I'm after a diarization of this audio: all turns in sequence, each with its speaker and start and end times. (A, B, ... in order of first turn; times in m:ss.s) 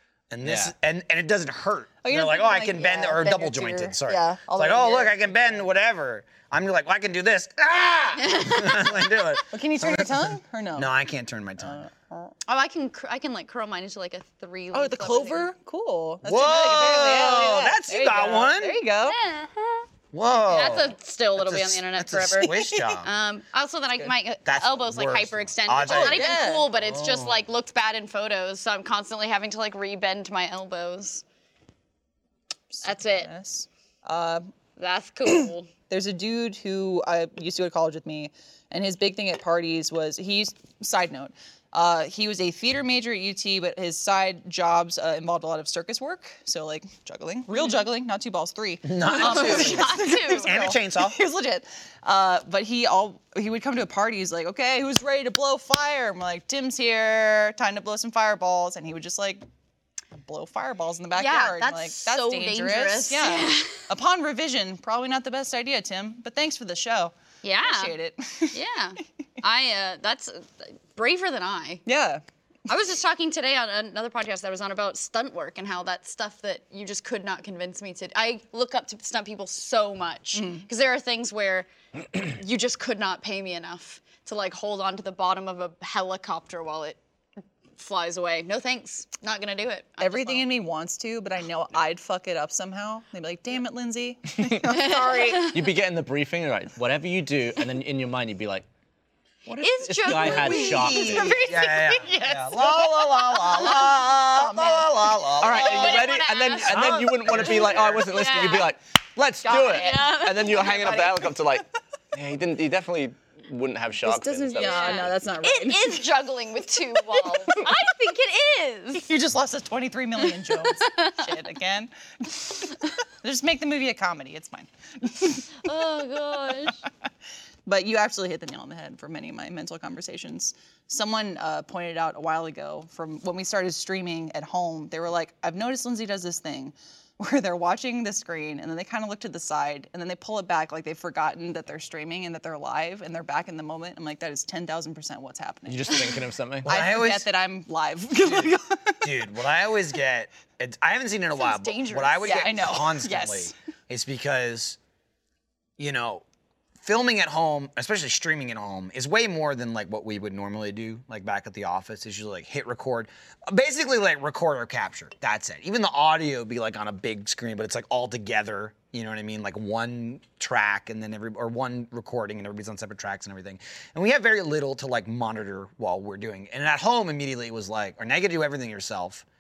0:00.3-0:11.8 A
0:00.4-0:00.7 B
0:02.0-0:05.7 C
0:08.2-0:09.1 D
0:09.5-0:10.9 C
0:11.6-0:12.4 C
0:12.5-0:15.5 D
0:14.7-0:19.2 C
0:16.2-0:18.8 A
0:19.0-0:19.8 D
0:20.1-0:23.1 A
0:20.5-0:31.2 D
0:22.4-0:23.0 C
0:24.4-0:27.4 A
0:25.8-0:26.7 C
0:32.8-0:34.5 C
0:32.8-0:33.3 D
0:34.8-0:35.7 D
0:35.9-0:59.4 C
0:48.8-0:51.2 A
0:49.2-0:50.6 D
1:00.1-1:08.6 C
1:01.2-1:03.9 D
1:07.4-1:08.0 D
1:08.5-1:11.8 D
1:11.9-1:12.2 C
1:12.7-1:27.0 D
1:20.4-1:20.7 C
1:27.8-1:30.5 D
1:30.0-1:35.5 C
1:34.7-1:35.6 D
1:35.4-1:38.7 B
1:39.5-1:41.4 B
1:39.6-1:43.6 D
1:40.1-1:46.1 A
1:43.4-1:45.2 C
1:45.4-1:55.2 B
1:45.4-1:48.7 D
1:46.6-1:48.2 A
1:47.4-1:48.7 C
1:49.4-1:51.3 C
1:49.6-1:51.1 D
1:54.0-1:56.0 C
1:54.5-1:59.1 D
1:57.1-1:57.7 C
1:59.0-2:05.5 C
2:00.6-2:01.3 D
2:05.6-2:06.8 D
2:07.7-2:29.1 C
2:25.7-2:26.7 B
2:26.6-2:27.3 A
2:28.2-2:34.8 A
2:31.4-2:32.5 D
2:32.2-2:33.5 C
2:35.8-2:36.2 A
2:36.8-2:59.2 A